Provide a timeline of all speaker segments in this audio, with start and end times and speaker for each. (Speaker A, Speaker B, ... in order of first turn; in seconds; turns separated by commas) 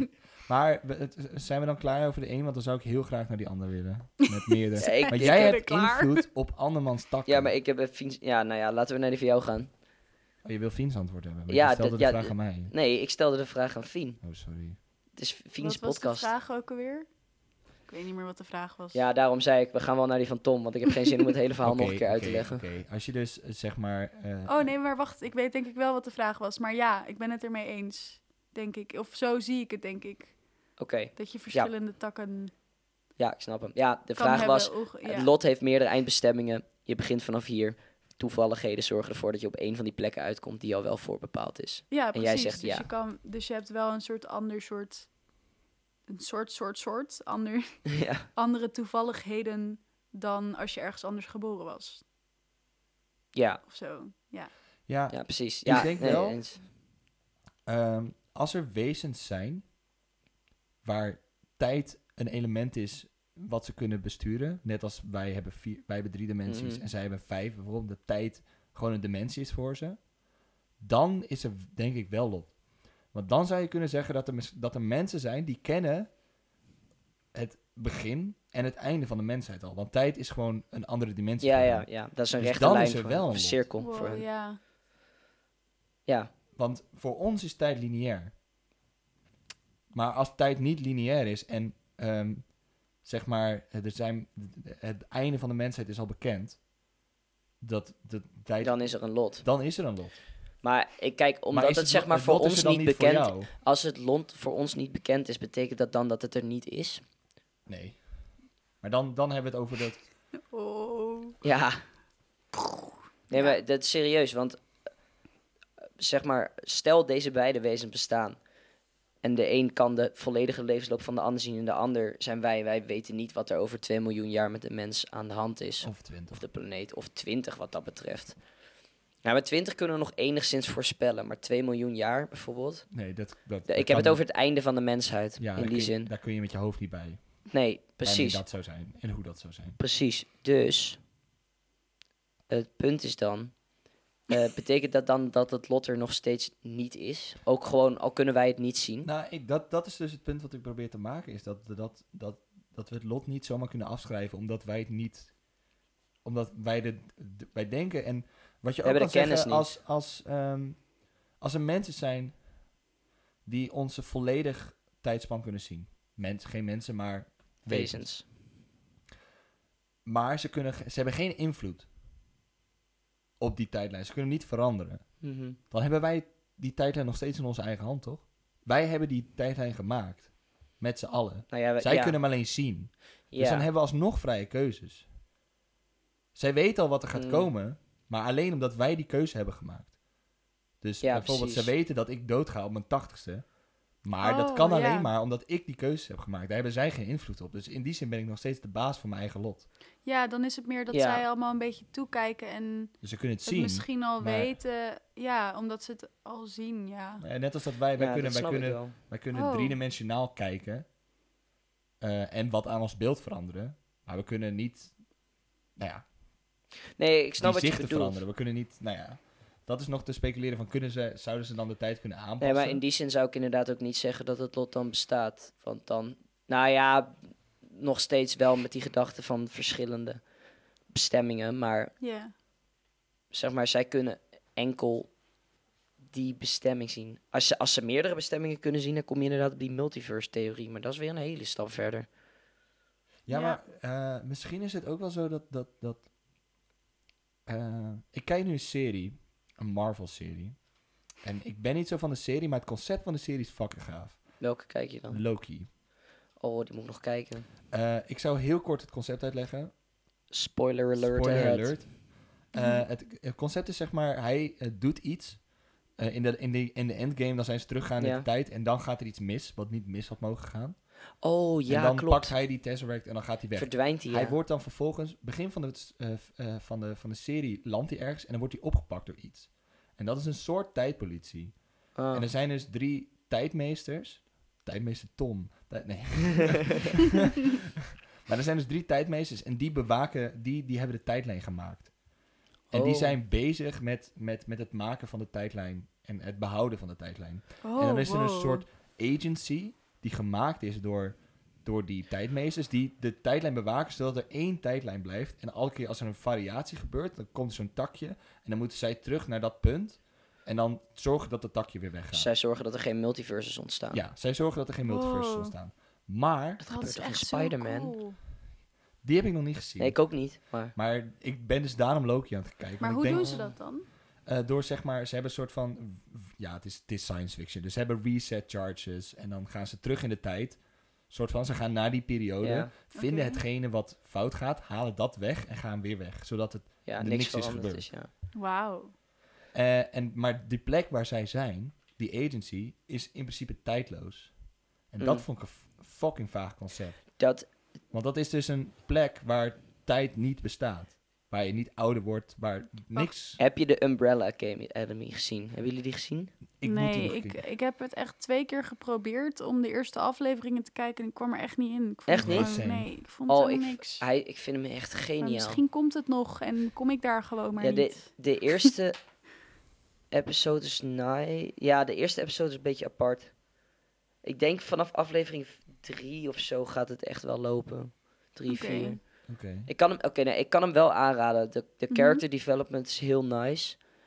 Speaker A: 0.5-7.5, Speaker B: 4.7-6.2, Speaker C: 4.8-5.6, Speaker C: 7.2-9.7, Speaker A: 10.4-12.7, Speaker C: 11.5-14.2, Speaker A: 14.2-14.8, Speaker C: 15.1-16.3, Speaker B: 15.6-17.1, Speaker B: 17.9-19.0, Speaker C: 18.9-22.6, Speaker A: 21.6-24.7, Speaker B: 24.5-30.4, Speaker C: 30.8-31.7, Speaker B: 31.1-32.5, Speaker C: 33.2-42.9, Speaker B: 34.1-35.3, Speaker B: 41.9-45.1, Speaker B: 46.1-52.0, Speaker C: 47.9-48.3, Speaker C: 53.3-53.6, Speaker B: 53.7-54.5, Speaker A: 54.9-56.4, Speaker C: 55.1-56.6, Speaker A: 57.6-59.7, Speaker A: 60.8-70.0, Speaker C: 66.5-66.8, Speaker A: 70.8-76.1, Speaker A: 77.3-83.6, Speaker C: 81.4-84.3, Speaker B: 83.8-84.6, Speaker C: 86.0-86.3, Speaker A: 86.5-88.3, Speaker A: 89.9-96.6, Speaker A: 97.6-100.2, Speaker C: 98.6-99.5, Speaker C: 100.6-107.0, Speaker A: 101.5-103.5, Speaker A: 107.7-108.0, Speaker A: 108.8-110.1, Speaker B: 110.5-111.4, Speaker C: 111.4-111.8, Speaker C: 113.3-114.6, Speaker B: 113.3-113.6, Speaker C: 116.0-118.4, Speaker C: 119.2-128.4, Speaker A: 125.8-126.4, Speaker C: 129.2-132.9, Speaker A: 132.9-134.2, Speaker C: 133.7-136.1, Speaker A: 135.4-137.4, Speaker C: 137.5-138.4, Speaker A: 138.0-139.8, Speaker C: 139.8-141.0, Speaker C: 142.5-143.5, Speaker C: 144.3-149.1, Speaker A: 149.0-155.3, Speaker A: 156.2-162.5, Speaker C: 158.8-159.8, Speaker A: 163.4-168.1, Speaker C: 167.7-168.2, Speaker A: 170.0-171.9, Speaker A: 173.4-185.1, Speaker C: 175.2-175.6, Speaker C: 181.5-182.2, Speaker C: 183.3-183.7, Speaker A: 186.3-189.9, Speaker C: 187.1-187.5, Speaker A: 190.8-193.5, Speaker C: 191.0-191.7, Speaker A: 194.0-199.7, Speaker B: 194.2-195.1, Speaker B: 200.0-207.2, Speaker C: 200.9-201.2, Speaker A: 203.0-204.6, Speaker A: 207.2-210.8, Speaker C: 207.9-208.9, Speaker B: 209.3-209.8, Speaker A: 212.0-214.9, Speaker A: 215.8-216.1, Speaker C: 216.9-218.2, Speaker A: 217.4-222.8, Speaker C: 222.4-230.2, Speaker C: 230.9-231.9, Speaker B: 232.0-232.3, Speaker C: 233.3-235.1, Speaker C: 236.1-242.1, Speaker A: 243.2-246.1, Speaker B: 243.3-243.6, Speaker A: 247.4-250.6, Speaker A: 251.2-254.4, Speaker C: 254.4-255.2, Speaker A: 255.1-255.7, Speaker C: 256.4-257.5, Speaker A: 257.7-259.7, Speaker C: 260.3-261.9, Speaker A: 260.9-270.8, Speaker B: 262.5-262.8, Speaker C: 268.0-268.2, Speaker C: 271.2-272.3, Speaker A: 271.6-287.6, Speaker C: 273.5-274.4, Speaker C: 281.9-282.3, Speaker A: 288.2-291.9, Speaker C: 292.7-293.1, Speaker A: 292.7-312.3, Speaker B: 297.6-298.6, Speaker C: 312.1-314.0, Speaker A: 313.9-316.7, Speaker B: 314.8-315.5, Speaker C: 316.6-317.9, Speaker B: 316.6-318.2, Speaker A: 319.0-323.6, Speaker C: 319.8-320.7, Speaker B: 322.8-323.9, Speaker C: 323.1-323.4, Speaker A: 324.2-337.9, Speaker C: 332.4-332.7, Speaker B: 332.9-333.4, Speaker C: 336.9-338.1, Speaker B: 338.3-338.9, Speaker A: 339.5-347.2, Speaker C: 347.2-347.5, Speaker A: 347.9-353.4, Speaker C: 353.4-356.3, Speaker A: 356.6-357.4, Speaker B: 356.6-364.0, Speaker C: 362.1-362.6, Speaker A: 362.2-362.9, Speaker C: 363.3-365.6, Speaker B: 365.2-368.7, Speaker C: 367.6-369.0, Speaker C: 370.1-373.4, Speaker C: 374.2-383.8, Speaker B: 378.5-379.0, Speaker A: 379.3-379.7, Speaker B: 381.9-382.2